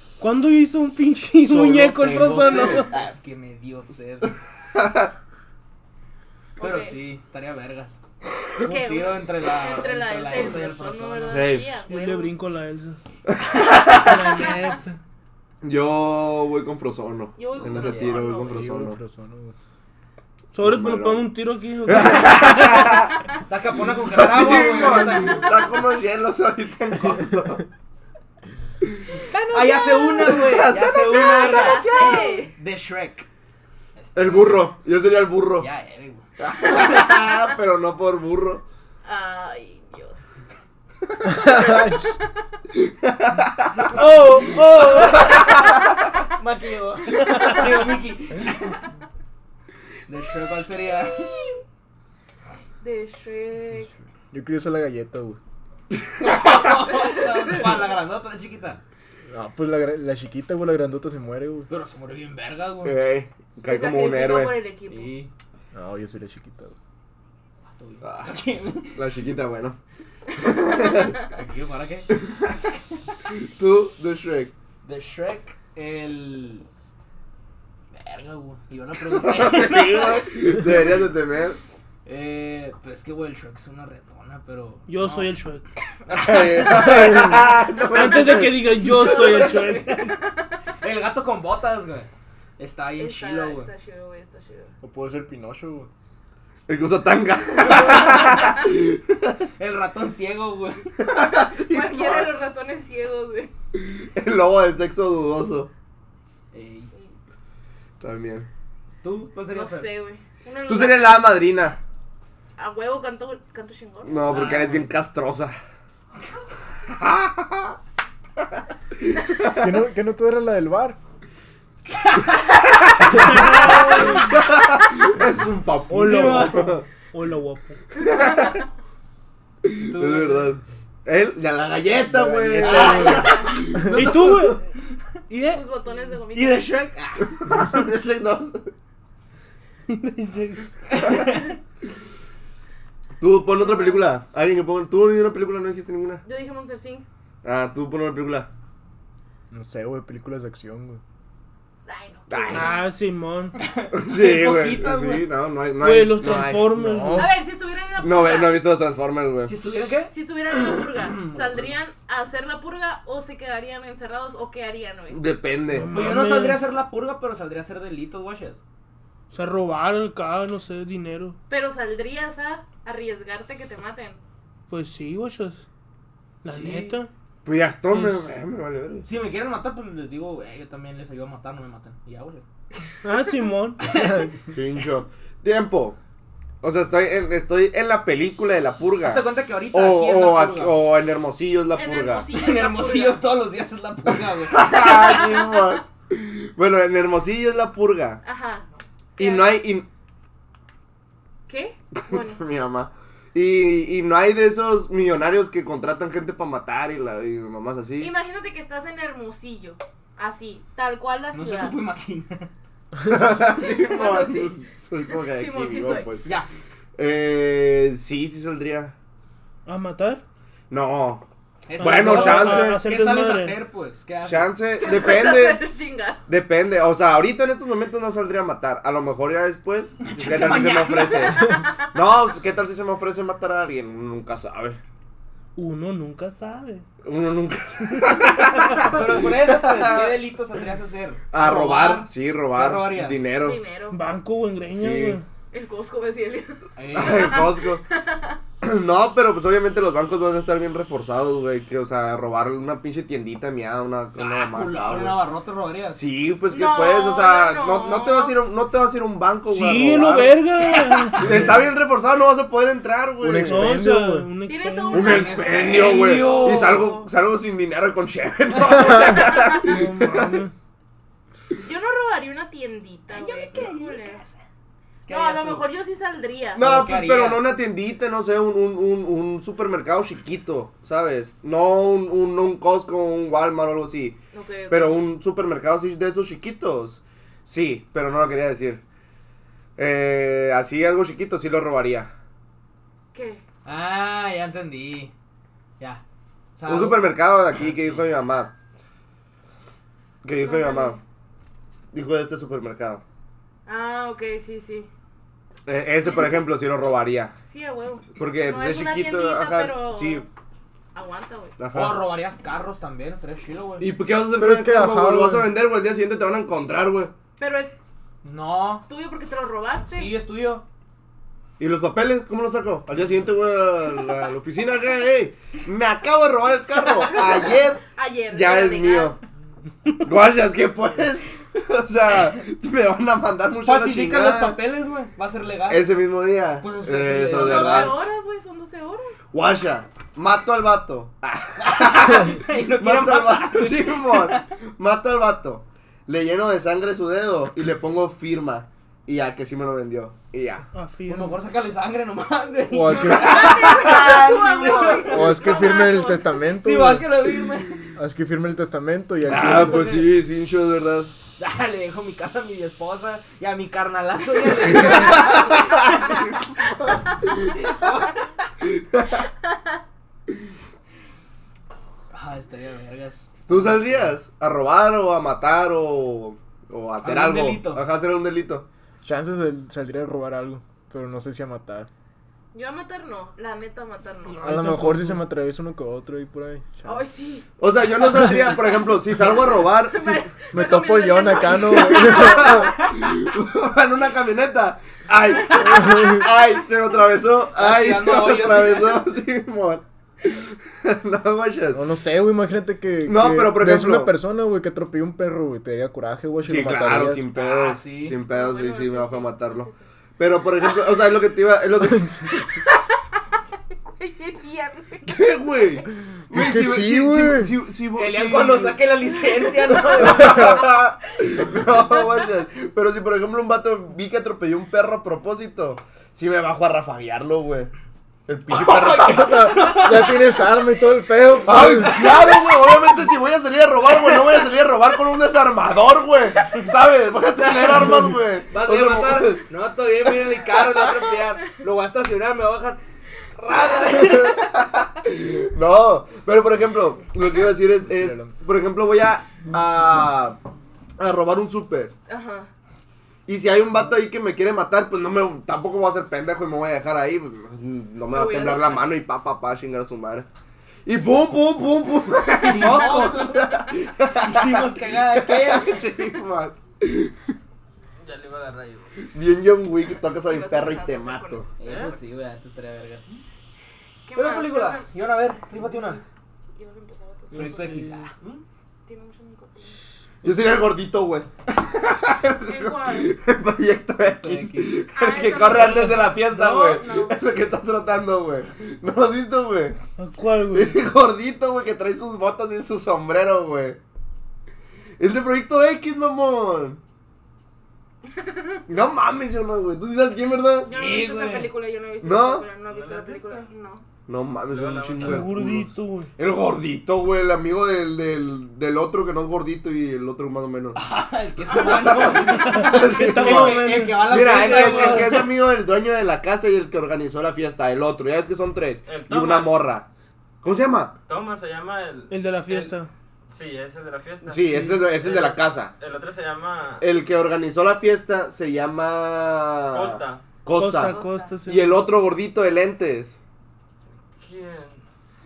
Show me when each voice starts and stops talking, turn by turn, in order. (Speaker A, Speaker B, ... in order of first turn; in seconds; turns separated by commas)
Speaker A: 0.2-2.9, Speaker B: 1.4-3.1, Speaker C: 2.5-4.3, Speaker B: 4.8-5.1, Speaker D: 6.6-7.0, Speaker C: 6.6-8.0, Speaker C: 8.6-11.5, Speaker D: 8.6-12.3, Speaker B: 11.3-11.7, Speaker A: 11.9-13.0, Speaker B: 13.3-14.3, Speaker A: 14.0-14.9, Speaker B: 15.6-19.0, Speaker D: 17.4-18.6, Speaker C: 17.7-18.1, Speaker E: 18.2-19.6, Speaker A: 20.5-23.0, Speaker B: 20.6-21.3, Speaker B: 21.8-23.1, Speaker C: 23.5-25.6, Speaker B: 24.0-27.7, Speaker D: 24.9-25.6, Speaker D: 29.3-32.5, Speaker C: 29.5-33.3, Speaker B: 30.3-32.3, Speaker C: 34.0-34.7, Speaker B: 34.1-35.7, Speaker C: 35.6-36.3, Speaker B: 36.4-38.6, Speaker D: 36.8-37.1, Speaker D: 39.0-40.4, Speaker E: 41.3-42.1, Speaker B: 42.8-44.0, Speaker A: 43.9-45.4, Speaker C: 46.4-48.8, Speaker C: 50.1-51.3, Speaker D: 51.1-51.6, Speaker D: 52.8-53.9, Speaker E: 54.3-55.4, Speaker C: 56.2-58.8, Speaker D: 56.8-57.6, Speaker E: 59.3-61.7, Speaker C: 61.7-63.0, Speaker B: 62.8-64.6, Speaker D: 63.6-65.1, Speaker C: 64.9-65.3, Speaker E: 65.7-66.8, Speaker C: 67.8-69.0, Speaker B: 68.0-69.8, Speaker B: 70.4-71.3, Speaker C: 71.3-72.1, Speaker B: 72.2-72.5, Speaker B: 73.3-74.5, Speaker C: 74.8-76.7, Speaker C: 77.9-80.2, Speaker B: 79.2-81.6, Speaker C: 82.1-85.3, Speaker A: 84.9-85.7, Speaker B: 86.1-89.4, Speaker C: 86.2-87.1, Speaker A: 87.9-90.1, Speaker D: 89.0-90.6, Speaker C: 90.8-93.7, Speaker D: 93.0-94.7, Speaker E: 94.8-95.9, Speaker B: 96.7-99.4, Speaker C: 97.8-98.4, Speaker C: 99.6-100.9, Speaker B: 101.0-102.3, Speaker D: 101.7-103.5, Speaker B: 103.8-105.7, Speaker C: 106.5-106.9, Speaker B: 108.0-108.5, Speaker C: 109.0-109.9, Speaker D: 109.5-111.3, Speaker B: 110.7-111.8, Speaker D: 112.6-114.5, Speaker B: 114.0-115.5, Speaker C: 114.3-114.9, Speaker B: 116.9-117.8, Speaker B: 119.2-119.7, Speaker E: 119.5-121.0, Speaker C: 122.0-122.3, Speaker B: 122.9-126.8, Speaker A: 123.2-124.2, Speaker A: 125.9-127.8, Speaker C: 126.1-126.5, Speaker B: 128.0-128.6, Speaker B: 129.6-134.6, Speaker C: 129.9-130.5, Speaker E: 132.1-133.0, Speaker C: 132.6-133.4, Speaker D: 132.6-133.6, Speaker A: 132.8-133.1, Speaker A: 133.8-134.6, Speaker A: 135.3-135.6, Speaker D: 135.4-136.7, Speaker C: 136.3-137.6, Speaker B: 137.4-138.7, Speaker A: 139.9-140.7, Speaker C: 140.9-141.6, Speaker B: 143.2-146.2, Speaker D: 143.6-144.1, Speaker D: 146.2-147.1, Speaker B: 147.4-148.5, Speaker E: 149.5-151.0, Speaker D: 151.9-152.9, Speaker B: 152.3-152.8, Speaker A: 152.5-153.6, Speaker C: 153.6-155.3, Speaker B: 153.9-156.8, Speaker A: 155.8-157.3, Speaker E: 156.7-157.3, Speaker D: 157.2-158.7, Speaker B: 158.0-159.6, Speaker C: 159.5-161.7, Speaker D: 160.1-165.2, Speaker B: 165.1-166.1, Speaker A: 165.7-166.6, Speaker C: 165.9-168.6, Speaker A: 169.3-171.4, Speaker D: 171.5-174.2, Speaker A: 174.7-175.7, Speaker A: 176.4-177.1, Speaker C: 176.5-176.9, Speaker B: 177.4-179.1, Speaker C: 179.1-182.4, Speaker A: 183.0-184.1, Speaker C: 183.8-184.3, Speaker B: 184.5-186.0, Speaker B: 186.6-192.3, Speaker C: 189.0-190.8, Speaker D: 191.8-193.2, Speaker C: 192.3-194.7, Speaker B: 194.1-198.2, Speaker D: 194.8-195.6, Speaker D: 198.2-199.5, Speaker B: 199.2-199.9, Speaker D: 201.5-202.4, Speaker B: 202.1-208.1, Speaker D: 208.0-211.8, Speaker C: 211.3-212.5, Speaker B: 213.0-216.3, Speaker D: 213.5-214.6, Speaker D: 215.3-216.1, Speaker B: 217.0-218.9, Speaker A: 219.7-220.2, Speaker B: 220.7-221.2, Speaker C: 221.7-224.5, Speaker B: 221.8-222.8, Speaker A: 221.8-223.6, Speaker B: 224.2-225.7, Speaker D: 224.8-226.2, Speaker B: 226.3-234.8, Speaker C: 230.0-231.5, Speaker D: 231.2-231.7, Speaker A: 235.6-236.8, Speaker B: 237.0-240.1, Speaker C: 238.8-243.2, Speaker B: 241.3-243.6, Speaker D: 243.4-244.0, Speaker A: 243.9-245.2, Speaker B: 244.7-245.2, Speaker D: 245.5-248.4, Speaker C: 246.8-247.5, Speaker B: 246.9-247.8, Speaker B: 248.6-255.2, Speaker C: 254.2-256.0, Speaker B: 255.9-263.8, Speaker D: 256.5-258.4, Speaker A: 259.5-261.6, Speaker E: 263.2-264.3, Speaker A: 263.4-265.3, Speaker D: 264.5-267.1, Speaker B: 264.9-270.4, Speaker C: 265.0-266.9, Speaker D: 269.2-269.6, Speaker A: 269.2-270.5, Speaker D: 271.6-274.2, Speaker C: 273.1-274.4, Speaker C: 275.1-275.7, Speaker D: 275.1-276.6, Speaker B: 276.6-284.2, Speaker C: 276.6-277.5, Speaker D: 284.3-285.0, Speaker B: 284.7-288.8, Speaker B: 289.8-292.1, Speaker D: 293.1-293.4, Speaker C: 293.6-295.1, Speaker C: 296.6-298.1, Speaker B: 296.7-298.5, Speaker B: 300.2-301.0, Speaker D: 300.4-301.0, Speaker B: 301.9-303.0, Speaker D: 303.7-304.9, Speaker B: 305.7-307.4, Speaker D: 307.5-310.3, Speaker B: 308.2-310.3, Speaker D: 310.9-311.6, Speaker B: 311.6-312.1, Speaker C: 311.7-314.0, Speaker B: 313.8-317.1, Speaker E: 314.3-315.5, Speaker D: 317.4-317.8, Speaker C: 318.2-318.9, Speaker D: 318.9-320.1, Speaker C: 319.9-320.6, Speaker B: 321.6-329.2, Speaker D: 327.1-329.2, Speaker B: 330.0-334.6, Speaker C: 333.6-335.9, Speaker B: 335.7-338.0, Speaker C: 336.6-338.0, Speaker D: 337.3-339.2, Speaker B: 339.3-350.7, Speaker C: 341.6-344.5, Speaker A: 350.7-351.4, Speaker C: 351.1-355.6, Speaker E: 352.7-353.8, Speaker D: 352.9-356.4, Speaker B: 353.3-355.2, Speaker E: 355.1-357.2, Speaker C: 356.6-357.9, Speaker E: 357.9-360.1, Speaker B: 359.2-361.1, Speaker C: 359.3-360.1, Speaker C: 361.4-366.3, Speaker B: 364.8-367.7, Speaker C: 367.6-368.3, Speaker B: 368.7-369.3, Speaker C: 372.1-373.3, Speaker B: 373.5-378.7, Speaker E: 373.5-374.1, Speaker C: 377.0-377.9, Speaker E: 379.0-381.9, Speaker D: 382.5-384.4, Speaker A: 384.3-385.2, Speaker E: 384.4-387.1, Speaker D: 386.9-387.5, Speaker B: 387.6-390.3, Speaker D: 388.2-392.7, Speaker E: 390.5-392.8, Speaker B: 391.8-399.9, Speaker E: 395.6-396.3, Speaker C: 397.6-399.1, Speaker B: 400.4-401.8, Speaker E: 401.7-407.3, Speaker B: 403.1-404.1, Speaker B: 406.4-412.5, Speaker C: 407.3-408.2, Speaker D: 408.3-409.9, Speaker D: 413.9-415.3, Speaker B: 415.1-418.8, Speaker E: 416.3-417.6, Speaker C: 417.9-420.8, Speaker B: 419.7-427.7, Speaker B: 428.3-429.4, Speaker C: 428.5-430.6, Speaker E: 429.1-432.1, Speaker B: 431.4-439.4, Speaker C: 431.7-432.9, Speaker C: 433.9-434.4, Speaker C: 437.3-442.8, Speaker B: 440.5-441.0, Speaker C: 443.4-444.5, Speaker B: 443.8-450.4, Speaker E: 447.8-448.4, Speaker B: 451.0-451.9, Speaker D: 452.1-452.5, Speaker B: 453.3-460.3, Speaker D: 458.1-458.9, Speaker B: 460.9-467.2, Speaker C: 462.4-465.8, Speaker D: 462.6-463.6, Speaker F: 468.0-468.9, Speaker B: 469.1-471.5, Speaker D: 470.3-471.8, Speaker C: 471.6-473.2, Speaker F: 471.6-472.0, Speaker D: 474.1-474.9, Speaker C: 474.1-476.0, Speaker D: 475.5-476.0, Speaker D: 476.6-477.9, Speaker A: 477.3-478.1, Speaker C: 477.3-478.4, Speaker D: 478.9-479.8, Speaker B: 480.2-489.8, Speaker D: 482.4-483.1, Speaker C: 484.1-484.8, Speaker D: 484.9-487.2, Speaker C: 485.5-486.8, Speaker A: 490.0-490.8, Speaker B: 490.4-493.8, Speaker B: 495.0-496.8, Speaker B: 498.7-500.7, Speaker D: 500.6-503.8, Speaker C: 500.7-501.5, Speaker B: 502.0-502.5, Speaker F: 502.7-503.5, Speaker B: 504.1-510.8, Speaker F: 504.5-505.3, Speaker A: 505.0-506.1, Speaker C: 510.8-515.3, Speaker B: 511.5-519.9, Speaker D: 511.5-512.4, Speaker A: 512.3-515.3, Speaker F: 518.9-519.7, Speaker B: 520.4-521.0, Speaker F: 521.1-522.8, Speaker A: 522.1-522.9, Speaker F: 523.3-526.9, Speaker B: 524.2-525.8, Speaker B: 526.8-533.2, Speaker F: 529.7-530.2, Speaker A: 530.5-531.9, Speaker D: 530.7-531.4, Speaker F: 534.2-534.8